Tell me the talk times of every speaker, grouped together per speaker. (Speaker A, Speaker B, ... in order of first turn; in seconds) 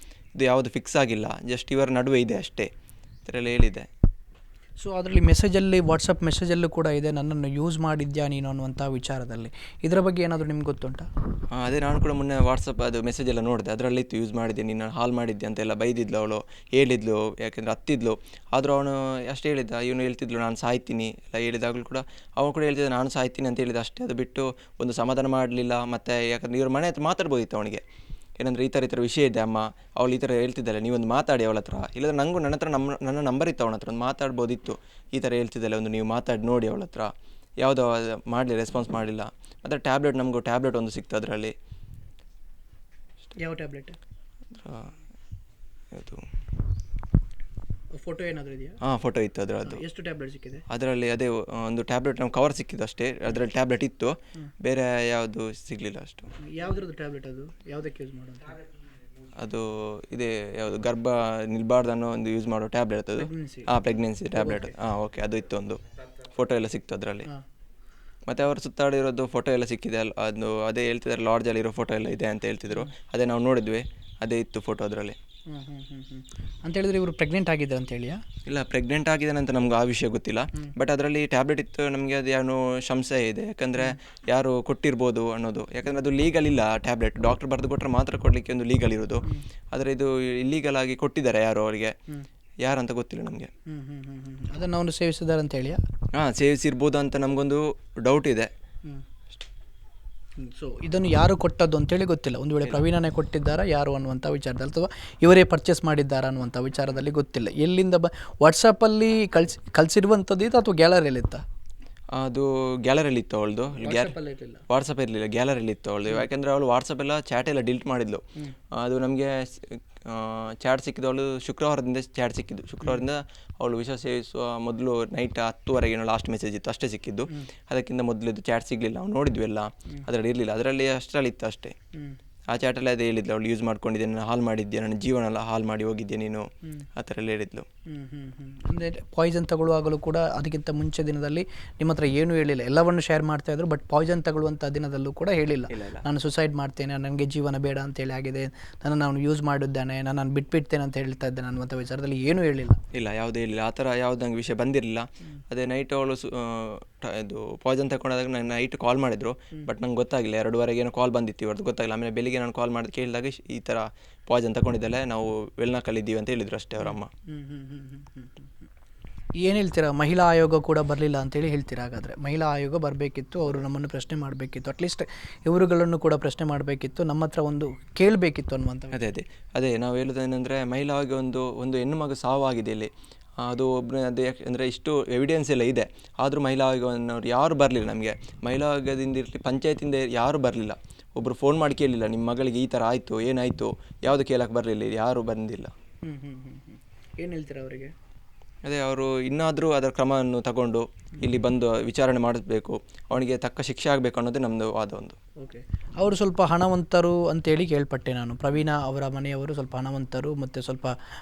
Speaker A: 0.3-2.7, 3.2-3.9, 11.5-27.8, 28.4-41.5, 44.6-44.9, 45.9-46.2, 48.8-49.8, 50.7-56.3, 59.4-65.8, 66.3-67.3, 68.3-75.2, 78.5-91.9, 92.6-93.5, 96.1-98.5, 112.1-114.1, 114.7-118.2, 118.8-131.7, 132.5-136.4, 137.0-137.7, 145.7-146.0, 152.9-167.1, 178.9-195.7, 198.6-205.2
Speaker B: 4.8-11.1, 43.4-44.0, 47.9-48.8, 49.6-50.6, 56.4-58.6, 63.2-63.8, 64.3-64.7, 75.5-78.2, 93.7-95.8, 100.4-111.4, 113.8-114.6, 137.9-152.8, 166.8-168.5, 169.4-179.0, 196.0-197.9, 205.4-210.9